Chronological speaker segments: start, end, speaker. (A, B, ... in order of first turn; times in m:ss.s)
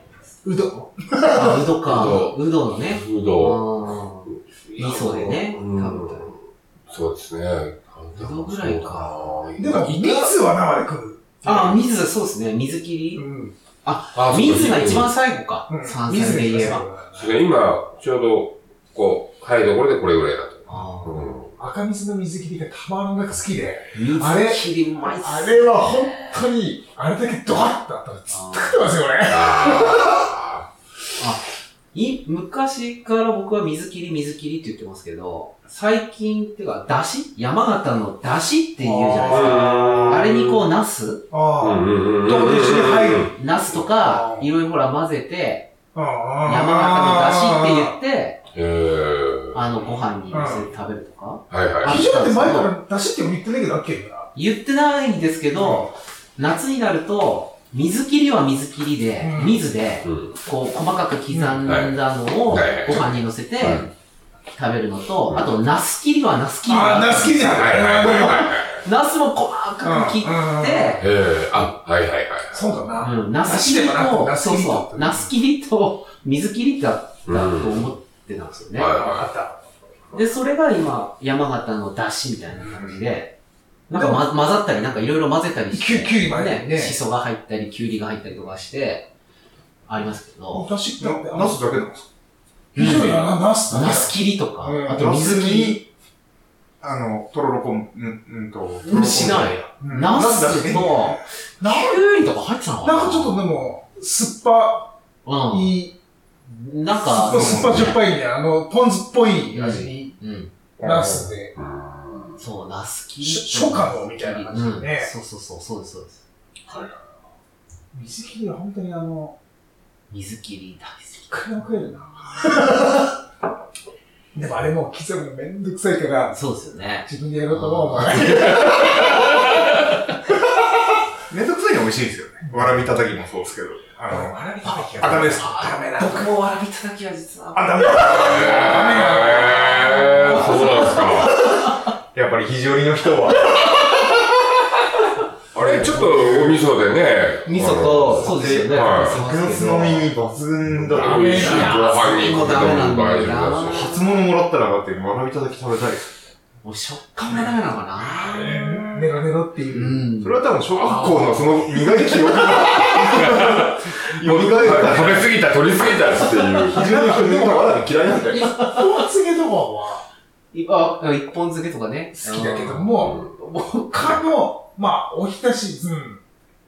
0:00.4-0:02.0 A
0:01.3-0:06.3 B
0:01.8-0:06.4 C
0:06.9-0:09.8 C
0:08.1-0:09.1 B
0:09.6-0:11.8 A
0:09.7-0:10.3 B
0:11.4-0:13.3 B
0:13.1-0:13.5 A
0:13.8-0:16.8 B
0:14.1-0:15.1 C
0:15.7-0:17.4 A
0:17.1-0:21.5 C
0:20.7-0:21.3 B
0:21.6-0:30.3 A
0:23.9-0:26.4 B
0:28.3-0:29.0 B
0:29.3-0:30.7 C
0:31.9-0:41.2 B
0:38.8-0:40.3 A
0:39.2-0:40.7 C
0:41.3-0:44.5 A
0:41.6-0:43.3 C
0:43.3-0:45.7 B
0:45.9-0:48.0 A
0:46.4-0:48.4 B
0:48.5-0:49.6 C
0:49.5-0:52.7 B
0:50.3-0:50.7 A
0:51.5-0:52.0 C
0:51.8-0:54.3 A
0:54.3-1:03.9 B
0:55.5-0:55.9 A
0:59.2-0:59.6 A
1:00.0-1:00.3 C
1:01.3-1:01.6 A
1:01.6-1:03.1 C
1:03.6-1:03.9 C
1:04.5-1:11.0 B
1:06.6-1:08.6 A
1:07.4-1:08.8 C
1:09.8-1:11.0 A
1:11.0-1:12.7 C
1:12.5-1:15.3 A
1:13.0-1:19.0 B
1:17.2-1:17.9 C
1:18.7-1:19.3 C
1:19.0-1:19.6 A
1:20.1-1:23.3 B
1:22.5-1:23.0 A
1:23.9-1:29.1 B
1:23.9-1:24.3 A
1:25.7-1:27.0 A
1:29.9-1:30.7 B
1:30.5-1:31.9 A
1:31.0-1:32.0 D
1:32.7-1:35.1 A
1:32.7-1:35.8 B
1:34.9-1:35.9 D
1:36.8-1:41.2 D
1:38.8-1:43.4 B
1:38.9-1:39.3 C
1:41.6-1:42.0 A
1:42.8-1:44.9 A
1:45.2-1:45.7 B
1:45.5-1:45.9 A
1:46.5-1:48.0 B
1:46.9-1:50.2 A
1:47.2-1:47.9 D
1:49.5-1:50.5 B
1:50.8-1:52.4 C
1:50.8-1:51.5 A
1:52.4-1:56.2 B
1:53.2-1:55.1 A
1:56.7-1:57.0 C
1:57.9-1:59.4 A
2:00.1-2:01.6 B
2:01.3-2:03.1 A
2:04.3-2:06.4 A
2:06.3-2:09.1 B
2:07.0-2:09.5 A
2:11.3-2:15.7 D
2:14.0-2:16.3 A
2:15.1-2:21.7 B
2:17.5-2:19.2 D
2:17.8-2:20.8 A
2:18.1-2:21.4 C
2:22.1-2:24.0 D
2:25.5-2:29.2 C
2:25.6-2:26.6 D
2:27.4-2:30.1 B
2:28.1-2:32.1 D
2:30.8-2:34.0 C
2:31.0-2:32.0 A
2:31.3-2:34.0 B
2:33.6-2:36.1 D
2:36.6-2:38.6 B
2:37.2-2:39.1 D
2:38.4-2:40.0 A
2:39.7-2:41.4 B
2:40.2-2:48.5 D
2:40.8-2:41.6 C
2:42.2-2:46.8 C
2:46.7-2:50.0 A
2:48.3-2:49.0 B
2:50.5-2:54.2 B
2:52.1-2:53.2 A
2:53.0-2:53.3 C
2:53.8-2:56.2 A